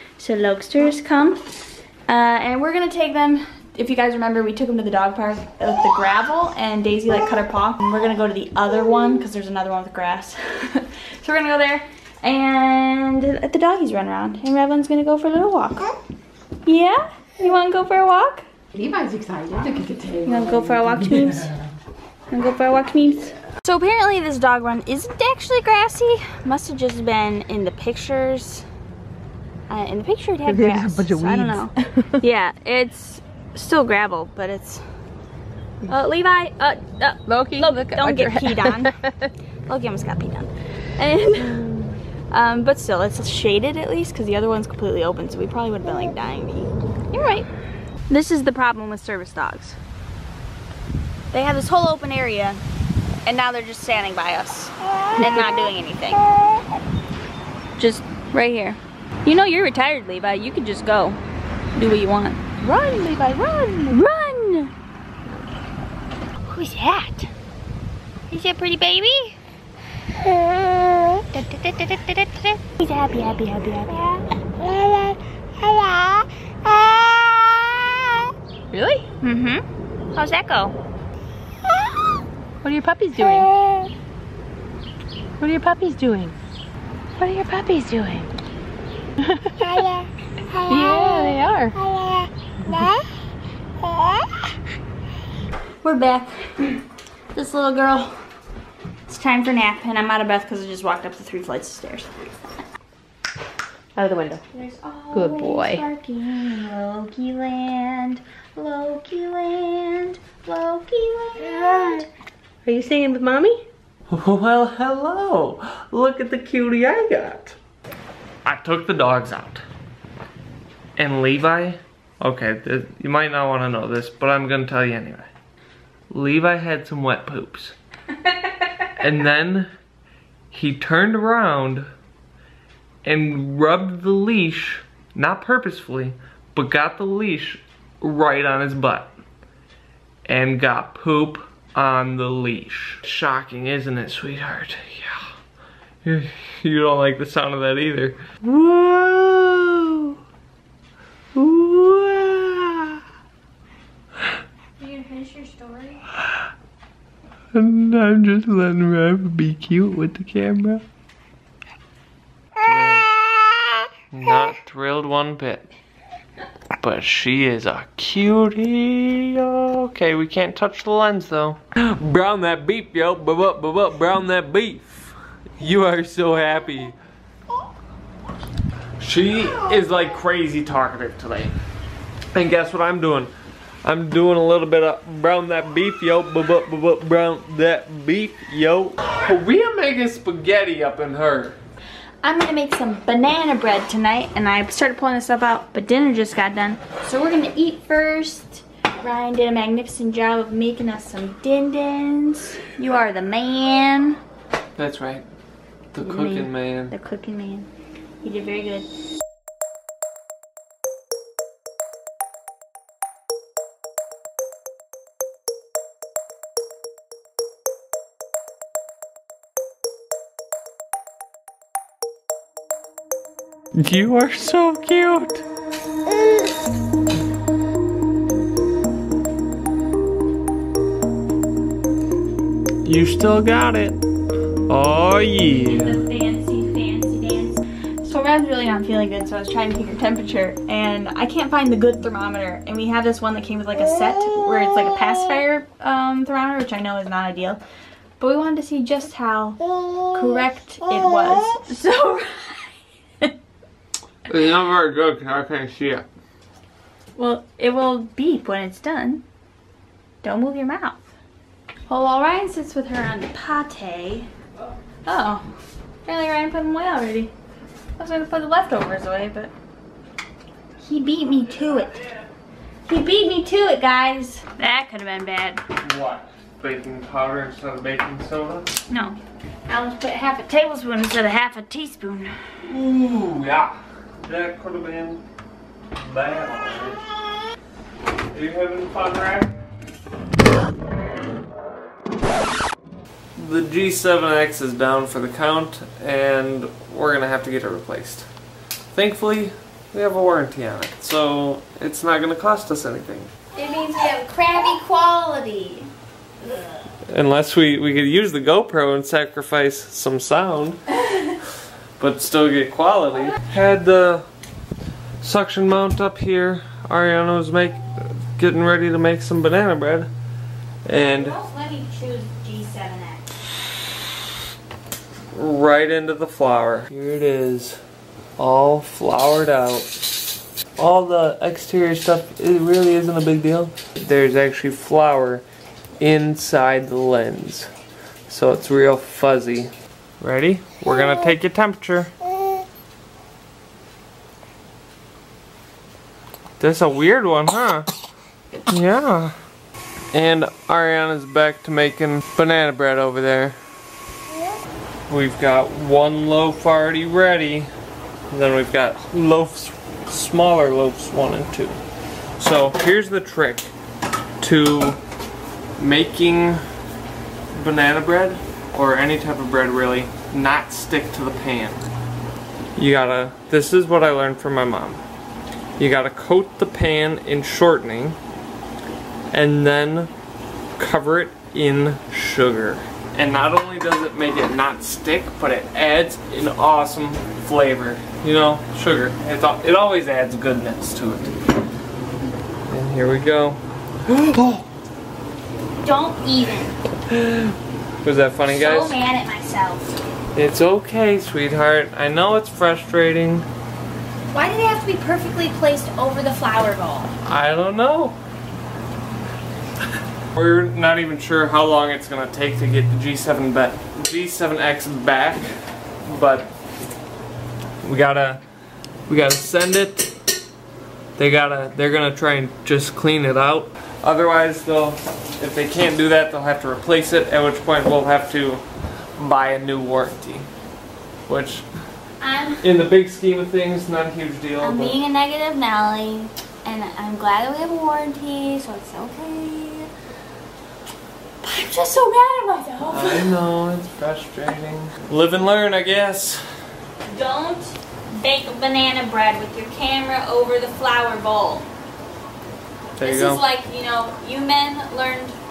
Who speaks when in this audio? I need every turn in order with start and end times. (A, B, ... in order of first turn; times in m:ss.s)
0:00.2-0:01.4 A
0:02.1-0:15.9 A
0:16.6-0:18.4 A
0:18.7-0:21.6 B
0:20.2-0:21.6 A
0:22.3-0:28.6 A
0:29.7-0:34.8 A
0:30.5-0:32.2 B
0:35.8-0:38.9 A
0:37.2-0:39.1 B
0:39.7-0:41.7 A
0:41.4-0:42.0 B
0:42.3-0:47.5 A
0:48.1-0:49.8 A
0:51.3-0:52.6 A
0:53.2-0:56.2 A
0:57.8-1:01.2 A
1:01.7-1:02.5 A
1:02.6-1:04.0 B
1:03.9-1:04.7 A
1:06.5-1:07.3 A
1:08.3-1:09.4 A
1:11.3-1:14.2 A
1:14.6-1:17.3 B
1:18.7-1:19.1 B
1:19.2-1:20.7 A
1:22.6-1:23.5 B
1:25.4-1:26.3 B
1:27.2-1:28.3 B
1:29.3-1:32.0 B
1:30.7-1:31.3 A
1:32.7-1:33.0 B
1:35.8-1:36.8 A
1:37.3-1:38.1 A
1:39.1-1:42.1 A
1:44.0-1:44.4 B
1:44.5-1:52.1 A
1:45.1-1:45.8 B
1:51.5-1:52.0 B
1:52.6-1:53.6 B
1:54.1-1:57.6 C
1:58.4-1:59.6 C
2:01.0-2:05.3 C
2:06.1-2:07.8 C
2:09.0-2:09.7 C
2:10.5-2:11.9 C
2:13.0-2:19.1 C
2:20.2-2:25.3 C
2:26.0-2:30.2 C
2:31.3-2:33.0 C
2:34.8-2:36.0 A
2:37.5-2:40.8 C
2:42.6-2:43.1 C
2:44.1-2:45.7 C
2:46.8-2:57.0 C
2:59.0-3:01.5 C
3:02.3-3:03.3 C
3:03.8-3:11.6 C
3:12.2-3:24.2 A
3:24.8-3:25.2 C
3:25.9-3:26.9 C
3:26.0-3:27.7 A
3:28.2-3:28.9 A
3:43.8-3:45.4 C
3:52.8-3:54.0 C
3:54.7-3:56.0 C
3:55.6-4:07.6 A
4:08.2-4:09.6 A
4:10.1-4:13.3 A
4:14.3-4:16.0 C
4:17.2-4:19.2 A
4:20.2-4:21.0 A
4:21.9-4:24.3 A
4:25.0-4:25.4 A
4:26.0-4:27.3 A
4:28.0-4:29.5 A
4:30.8-4:32.0 A
4:32.8-4:35.6 A
4:35.8-4:38.8 C
4:38.9-4:39.2 A
4:39.7-4:42.5 A
4:42.6-4:45.2 C
4:46.0-4:47.0 C
4:48.3-4:49.5 C
4:53.4-4:58.3 C
4:58.9-5:03.3 C
5:03.6-5:05.9 A
5:07.1-5:10.9 C
5:11.4-5:14.2 C
5:15.2-5:20.1 C
5:20.8-5:21.4 C
5:21.0-5:23.3 A
5:25.3-5:27.8 C
5:28.4-5:29.9 C
5:30.8-5:35.4 C
5:36.0-5:37.7 C
5:38.3-5:42.1 C
5:46.6-5:47.9 C
5:48.7-5:49.4 C
5:50.1-5:53.6 C
5:55.1-5:57.7 C
5:58.3-6:01.8 C
6:02.4-6:03.7 C
6:04.4-6:05.0 C
6:05.8-6:06.6 C
6:07.5-6:11.8 C
6:12.8-6:15.0 C
6:15.8-6:18.2 C
6:19.3-6:20.1 C
6:20.8-6:31.3 C
6:32.7-6:34.6 C
6:35.8-6:36.8 A
6:37.1-6:39.0 C
6:38.5-6:40.0 A
6:40.3-6:43.4 C
6:44.3-6:47.1 A
6:47.2-6:48.2 C
6:50.4-6:55.5 C
6:56.0-6:56.5 C
6:57.8-6:58.4 C
6:59.1-7:00.1 C
7:01.2-7:08.6 C
7:09.2-7:10.5 C
7:11.3-7:11.6 C
7:12.2-7:12.6 A
7:12.6-7:15.0 C
7:14.6-7:19.9 A
7:21.4-7:23.4 A
7:22.9-7:26.6 C
7:27.1-7:31.7 A
7:33.0-7:33.4 C
7:33.0-7:35.4 A